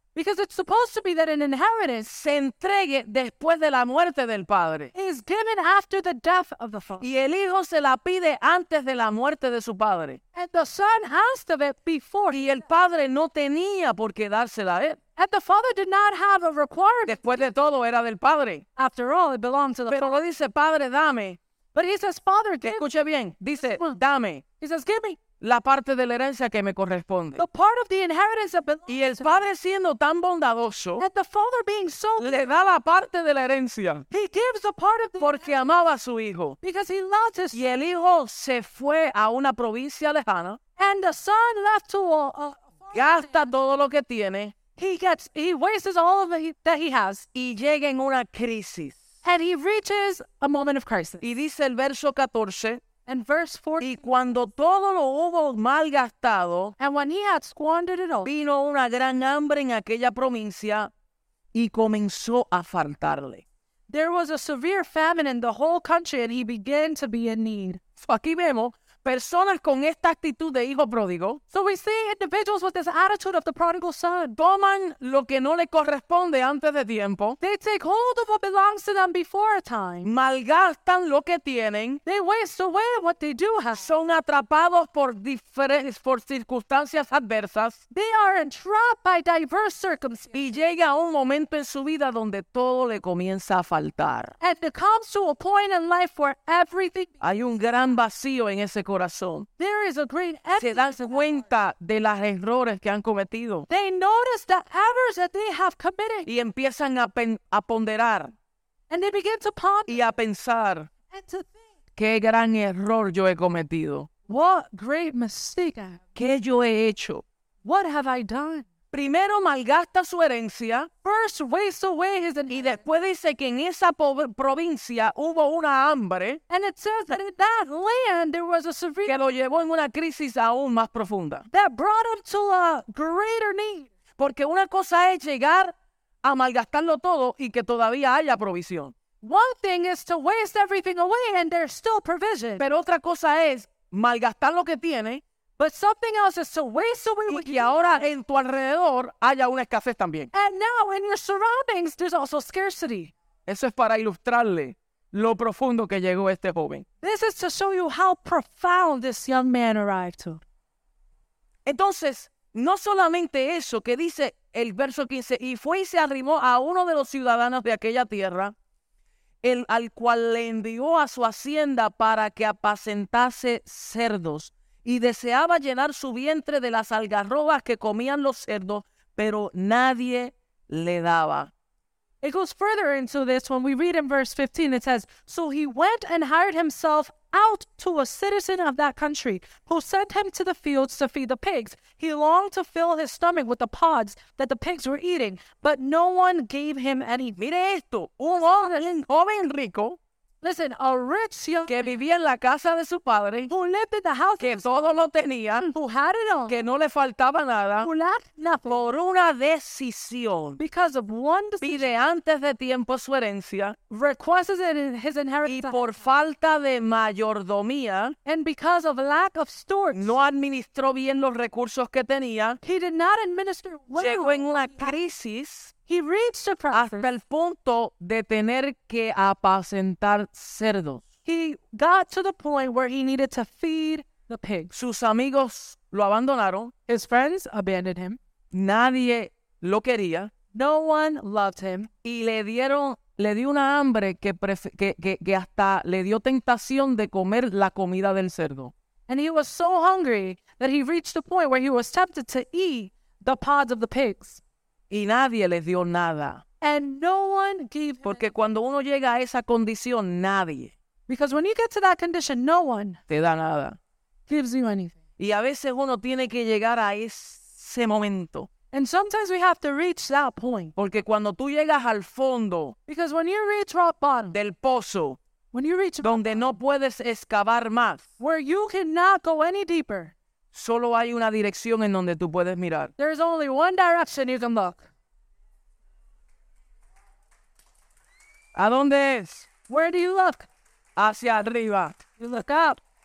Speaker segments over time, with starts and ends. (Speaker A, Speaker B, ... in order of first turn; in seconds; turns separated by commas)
Speaker A: 0.1-2.1, Speaker B: 2.0-4.9, Speaker A: 4.9-7.0, Speaker B: 7.0-10.2, Speaker A: 10.3-12.4, Speaker B: 12.3-15.0, Speaker A: 15.2-17.5, Speaker B: 17.1-18.6, Speaker A: 18.8-20.2, Speaker B: 19.9-21.4, Speaker A: 21.7-22.9, Speaker B: 22.6-24.4, Speaker A: 23.6-24.0, Speaker A: 24.6-25.2, Speaker B: 25.4-27.4, Speaker A: 27.4-29.4, Speaker B: 28.9-31.1, Speaker A: 31.0-32.5, Speaker B: 32.2-34.1, Speaker A: 34.1-35.6, Speaker B: 35.2-36.6, Speaker A: 36.6-37.6, Speaker B: 37.5-40.6, Speaker A: 40.8-43.5, Speaker B: 42.9-44.6, Speaker A: 44.8-47.3, Speaker B: 47.3-49.0, Speaker A: 49.2-51.2, Speaker B: 51.2-52.8, Speaker A: 53.1-54.0, Speaker B: 53.8-56.7, Speaker A: 56.8-58.3, Speaker B: 58.2-60.9, Speaker B: 61.5-63.4, Speaker A: 63.9-67.8, Speaker B: 68.0-71.4, Speaker A: 71.5-74.4, Speaker B: 74.4-77.4, Speaker A: 77.4-80.1, Speaker B: 80.0-82.0, Speaker A: 82.1-83.9, Speaker B: 83.8-87.8, Speaker A: 87.9-90.4, Speaker B: 90.3-94.3, Speaker A: 94.4-97.2, Speaker B: 97.2-99.5, Speaker A: 99.6-101.0, Speaker B: 100.6-103.7, Speaker A: 103.7-106.3, Speaker B: 106.3-108.3, Speaker A: 108.9-110.0, Speaker B: 109.9-110.9, Speaker A: 111.1-111.6, Speaker B: 112.0-114.1, Speaker A: 114.3-116.0, Speaker B: 116.2-117.2, Speaker A: 117.6-118.7, Speaker B: 118.9-120.9, Speaker A: 121.0-122.8, Speaker B: 122.5-126.4, Speaker A: 126.5-129.2, Speaker B: 129.1-131.5, Speaker A: 131.5-133.9, Speaker B: 134.2-138.9, Speaker A: 139.2-142.6, Speaker B: 142.6-145.2, Speaker A: 145.6-147.8, Speaker B: 147.3-150.3, Speaker A: 150.3-153.1, Speaker B: 153.5-156.8, Speaker A: 157.0-160.4, Speaker B: 161.7-168.5, Speaker B: 169.4-181.5, Speaker A: 182.2-197.4, Speaker B: 197.4-200.0, Speaker A: 200.4-202.0, Speaker B: 201.7-203.5, Speaker A: 203.5-204.7, Speaker B: 204.4-205.7, Speaker A: 205.7-206.6, Speaker B: 206.5-207.9, Speaker A: 207.8-208.8, Speaker B: 208.7-210.6, Speaker A: 210.6-211.9, Speaker B: 211.6-213.8, Speaker A: 213.9-215.8, Speaker B: 215.4-218.2, Speaker A: 218.2-220.1, Speaker B: 219.9-222.6, Speaker A: 222.6-224.9, Speaker B: 224.0-225.7, Speaker A: 225.9-227.1, Speaker B: 226.7-231.0, Speaker A: 231.3-234.7, Speaker B: 234.7-236.7, Speaker A: 236.9-238.2, Speaker B: 238.5-240.3, Speaker A: 240.5-241.9, Speaker B: 242.0-248.7, Speaker A: 249.1-254.4, Speaker B: 254.9-256.4, Speaker A: 256.6-258.3, Speaker B: 258.1-260.7, Speaker A: 261.1-263.0, Speaker B: 263.1-263.8, Speaker A: 264.3-264.9, Speaker B: 265.2-268.5, Speaker A: 268.7-270.7, Speaker B: 270.8-272.8, Speaker A: 272.9-274.4, Speaker B: 274.3-275.2, Speaker A: 275.5-276.5, Speaker B: 276.0-278.1, Speaker A: 278.2-280.1, Speaker B: 280.5-282.9, Speaker A: 283.0-284.9, Speaker B: 288.6-289.5, Speaker A: 289.7-290.5, Speaker B: 291.0-292.0, Speaker A: 292.2-292.8